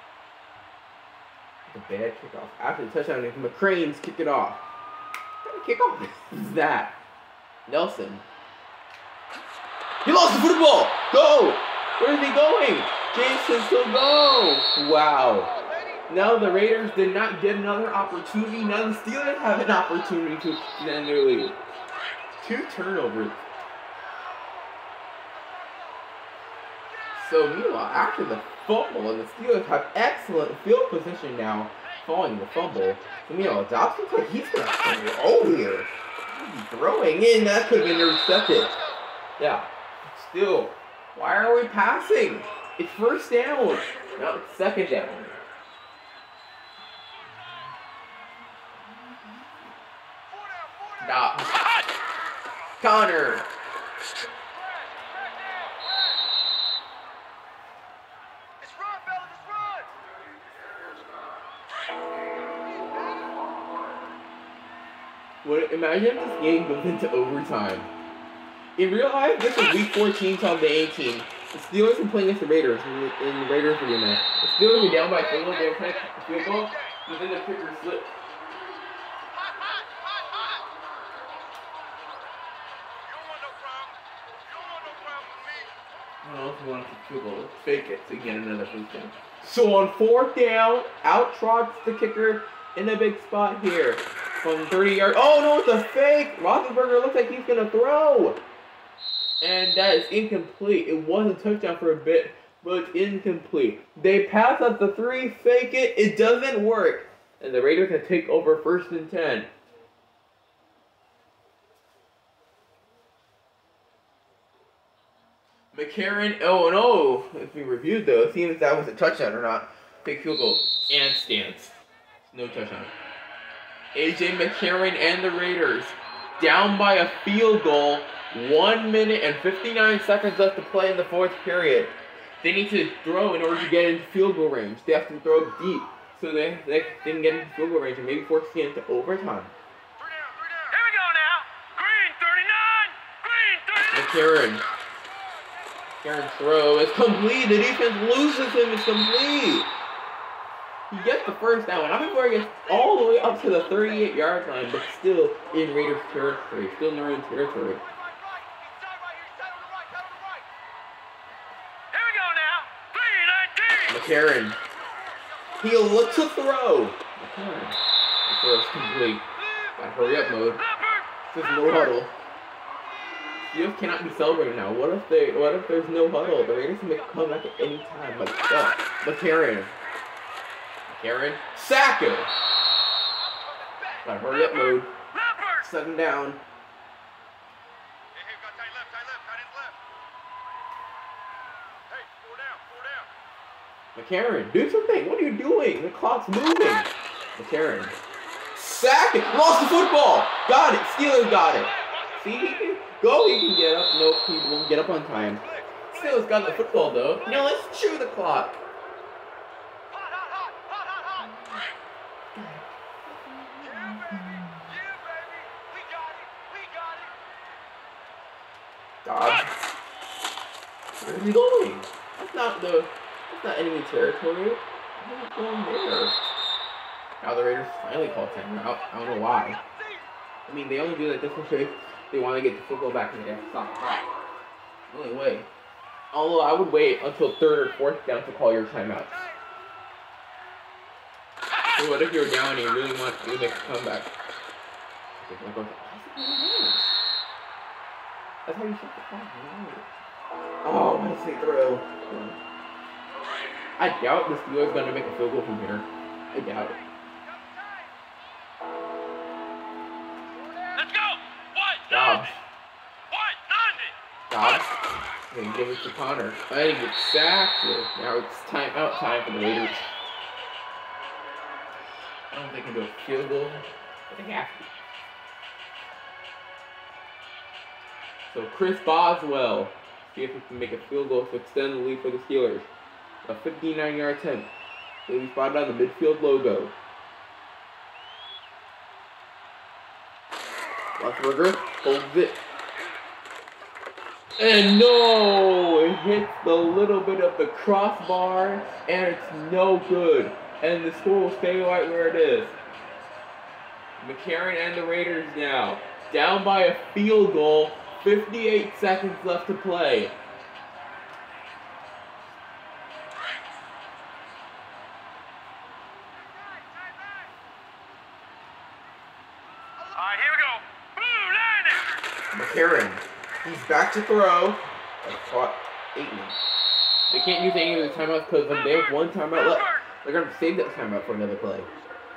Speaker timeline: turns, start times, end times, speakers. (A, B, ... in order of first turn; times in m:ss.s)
0:01.7-0:04.6 A
0:05.4-0:07.0 A
0:07.7-0:08.2 A
0:10.0-0:15.5 A
0:16.1-0:21.6 A
0:22.4-0:23.4 A
0:24.4-0:24.7 B
0:25.4-0:25.7 B
0:27.2-0:38.7 A
0:39.4-0:45.4 A
0:50.3-0:51.1 B
0:51.0-0:51.6 A
0:52.8-0:53.5 A
0:54.5-0:56.1 B
0:58.6-0:59.9 B
1:02.5-1:03.4 B
1:05.4-1:07.9 A
1:08.8-1:18.1 A
1:15.0-1:17.0 B
1:19.3-1:20.7 B
1:23.0-1:25.7 B
1:26.2-1:38.4 A
1:39.4-1:49.5 A
1:55.7-2:01.7 A
2:02.3-2:02.9 A
2:03.9-2:19.5 A
2:20.0-2:21.2 B
2:23.9-2:24.7 A
2:26.0-2:29.7 A
2:30.9-2:37.8 A
2:37.9-2:40.5 B
2:43.9-2:44.6 A
2:45.6-2:49.3 A
2:49.8-2:50.6 A
2:51.3-2:52.1 A
2:53.5-2:59.7 A
3:00.9-3:02.3 A
3:03.2-3:04.1 B
3:04.0-3:04.9 A
3:05.6-3:06.4 A
3:08.2-3:09.8 B
3:11.9-3:13.1 B
3:14.0-3:18.0 A
3:18.6-3:28.6 A
3:21.4-3:22.6 B
3:25.4-3:26.7 B
3:29.9-3:31.3 B
3:31.2-3:31.6 A
3:32.3-3:32.6 A
3:33.3-3:34.6 A
3:33.6-3:34.0 B
3:34.7-3:37.2 B
3:39.0-3:39.5 A
3:41.0-3:46.2 A
3:47.2-3:49.6 A
3:50.5-3:54.1 A
3:54.9-3:55.5 A
3:56.1-3:59.2 A
4:01.8-4:04.1 A
4:05.2-4:06.9 A
4:08.5-4:09.9 A
4:10.6-4:12.4 A
4:13.8-4:16.8 A
4:17.2-4:18.0 B
4:20.3-4:21.2 B
4:21.9-4:22.4 A
4:24.3-4:24.8 A
4:25.3-4:29.8 A
4:32.3-4:34.7 A
4:38.3-4:42.7 A
4:43.2-4:44.5 A
4:45.1-4:46.7 A
4:51.0-4:52.4 A
4:54.4-5:02.5 A
5:04.0-5:10.2 A
5:16.2-5:17.3 B
5:19.8-5:20.6 B
5:22.3-5:26.4 A
5:27.1-5:31.7 A